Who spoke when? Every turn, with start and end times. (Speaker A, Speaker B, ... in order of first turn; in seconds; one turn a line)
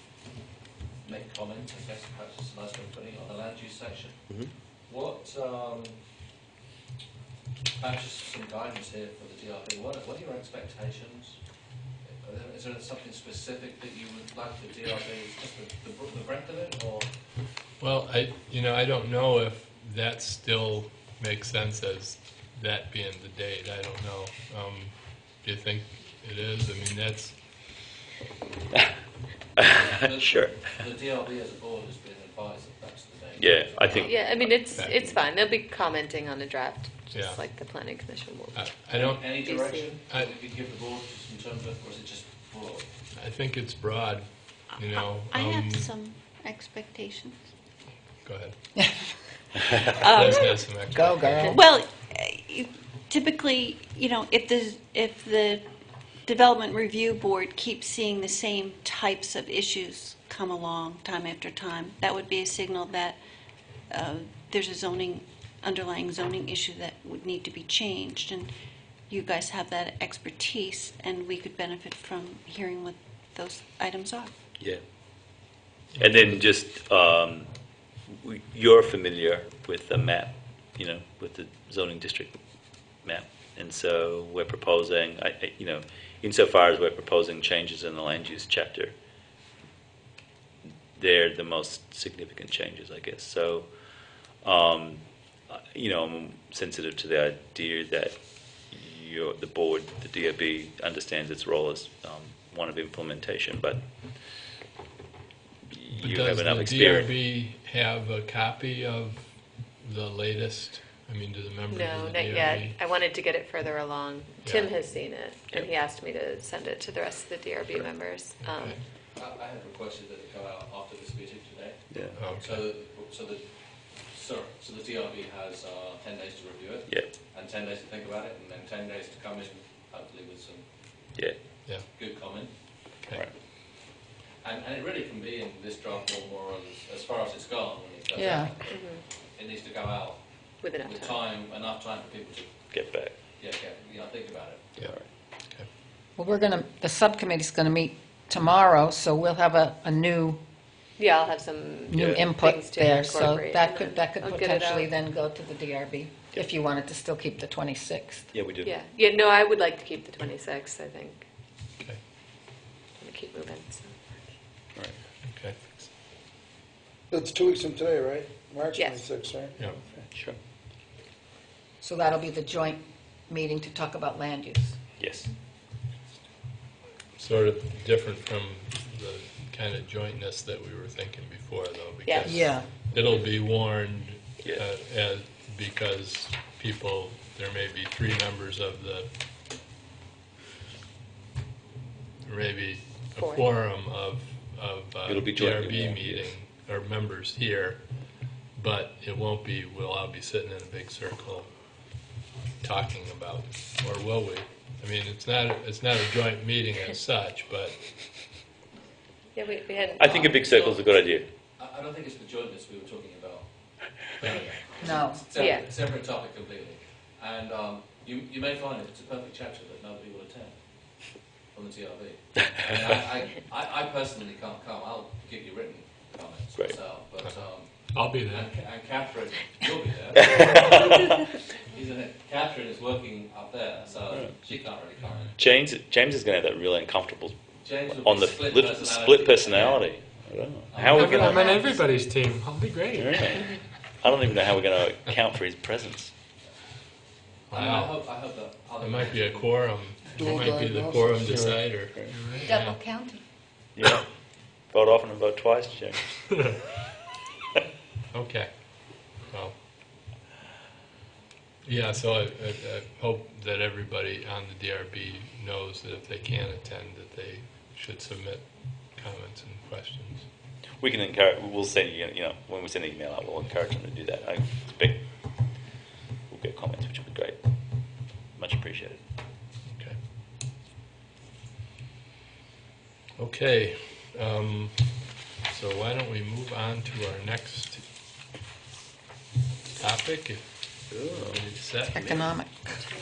Speaker A: 1.0-4.3
Speaker A: 4.9-6.0
Speaker A: 7.8-11.4
Speaker A: 12.1-17.1
Speaker B: 17.8-27.4
Speaker C: 29.6-30.6
Speaker A: 29.7-34.0
Speaker C: 33.4-34.7
Speaker D: 33.9-40.0
Speaker B: 34.7-35.2
Speaker B: 37.1-37.4
Speaker B: 38.5-39.4
Speaker A: 39.0-42.9
Speaker B: 43.1-45.9
Speaker E: 44.8-47.5
Speaker B: 48.2-48.6
Speaker F: 48.8-49.1
Speaker B: 49.8-51.6
Speaker E: 49.8-50.8
Speaker F: 50.9-51.5
Speaker E: 51.4-55.6
Speaker E: 56.2-63.2
Speaker E: 63.9-68.5
Speaker E: 69.1-74.3
Speaker C: 76.0-82.4
Speaker C: 83.0-88.9
Speaker C: 91.0-93.7
Speaker C: 94.4-103.8
Speaker C: 105.7-107.1
Speaker B: 105.9-112.8
Speaker D: 111.7-118.8
Speaker B: 114.4-114.8
Speaker B: 118.4-118.8
Speaker A: 119.1-123.5
Speaker C: 121.9-122.2
Speaker B: 122.2-122.7
Speaker A: 124.0-130.7
Speaker A: 131.9-132.5
Speaker A: 134.4-142.5
Speaker F: 138.2-138.5
Speaker D: 138.7-139.0
Speaker D: 140.6-141.2
Speaker C: 142.7-143.1
Speaker A: 143.4-144.7
Speaker C: 144.8-145.1
Speaker F: 146.2-150.4
Speaker D: 151.0-154.9
Speaker F: 151.9-158.3
Speaker C: 151.9-152.3
Speaker C: 158.3-158.8
Speaker D: 158.6-161.3
Speaker D: 163.0-164.0
Speaker B: 165.2-165.7
Speaker G: 167.1-169.8
Speaker D: 168.7-169.0
Speaker C: 170.0-170.4
Speaker F: 171.8-174.8
Speaker C: 175.0-175.3
Speaker B: 177.2-189.1
Speaker D: 182.1-182.5
Speaker F: 182.3-182.7
Speaker C: 182.9-183.3
Speaker B: 192.2-197.9
Speaker D: 193.2-193.5
Speaker C: 195.1-196.3
Speaker B: 198.5-201.6
Speaker B: 202.6-208.3
Speaker D: 209.3-211.0
Speaker C: 210.0-211.2
Speaker A: 211.6-221.0
Speaker B: 214.2-214.7
Speaker F: 214.8-215.2
Speaker D: 215.3-215.7
Speaker A: 221.5-235.4
Speaker C: 226.6-226.8
Speaker B: 227.9-228.5
Speaker C: 230.3-231.0
Speaker C: 234.1-234.5
Speaker C: 235.4-237.4
Speaker A: 237.6-239.9
Speaker C: 237.9-241.6
Speaker A: 240.7-241.6
Speaker H: 240.8-243.6
Speaker D: 241.4-241.8
Speaker C: 242.9-246.1
Speaker B: 247.5-248.1
Speaker A: 247.5-249.5
Speaker B: 248.8-252.8
Speaker G: 250.2-251.7
Speaker H: 251.8-252.5
Speaker F: 252.4-253.0
Speaker C: 253.8-254.1
Speaker C: 254.7-256.2
Speaker B: 258.1-258.5
Speaker B: 259.2-259.6
Speaker B: 261.6-270.3
Speaker C: 270.8-275.5
Speaker C: 276.3-279.0
Speaker B: 279.7-280.0
Speaker B: 283.2-287.8
Speaker B: 289.7-292.4
Speaker C: 290.9-291.4
Speaker F: 291.9-292.9